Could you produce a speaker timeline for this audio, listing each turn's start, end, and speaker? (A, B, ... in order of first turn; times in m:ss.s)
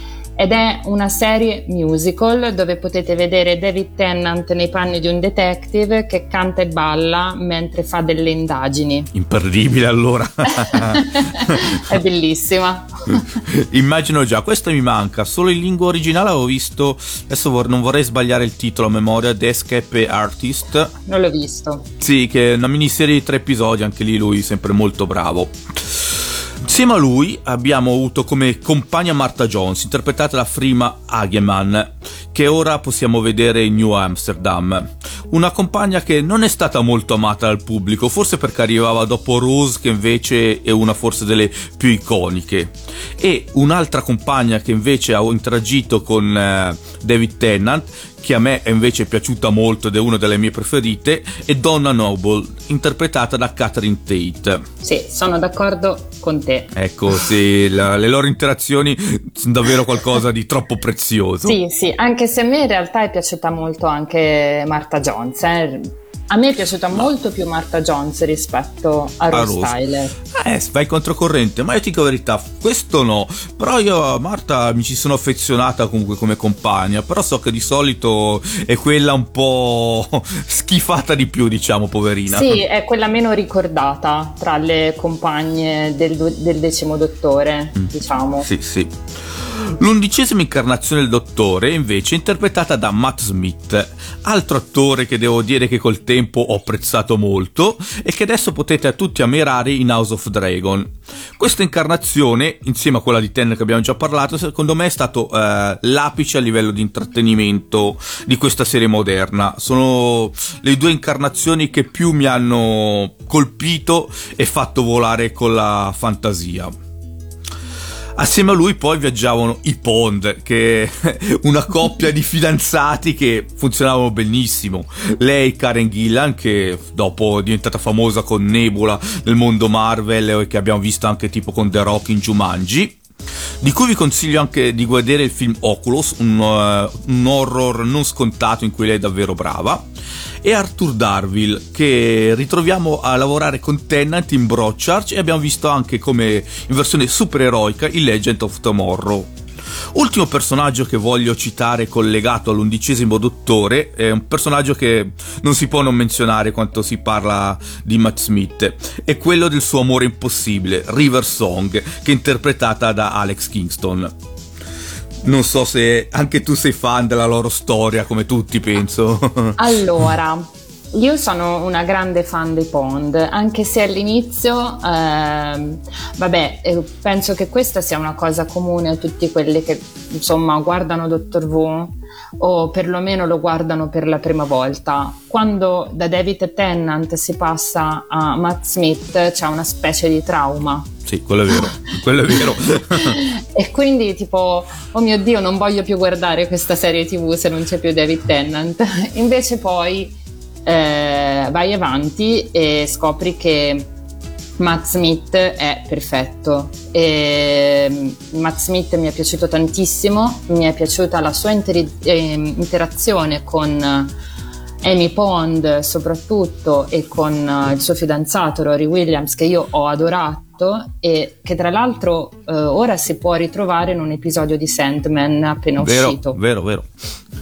0:00.4-0:09.1 A
0:09.1-0:11.8 B
0:10.7-0:13.4 A
0:13.4-0:20.9 B
0:21.1-0:21.9 A
0:22.0-0:54.6 B
0:54.8-0:56.7 A
0:56.8-1:01.6 B
1:01.4-1:10.2 A
1:09.3-1:09.8 B
1:10.3-1:22.6 B
1:22.3-1:28.5 A
1:28.4-1:56.7 B
1:58.2-2:13.0 B
2:13.6-2:19.9 B
2:20.4-2:29.4 B
2:29.9-2:44.1 B
2:45.2-2:49.6 B
2:49.6-3:10.9 A
3:11.1-3:13.2 B
3:13.0-3:20.2 A
3:20.7-3:23.9 A
3:24.6-3:34.2 A
3:34.8-3:46.4 A
3:45.8-3:46.9 B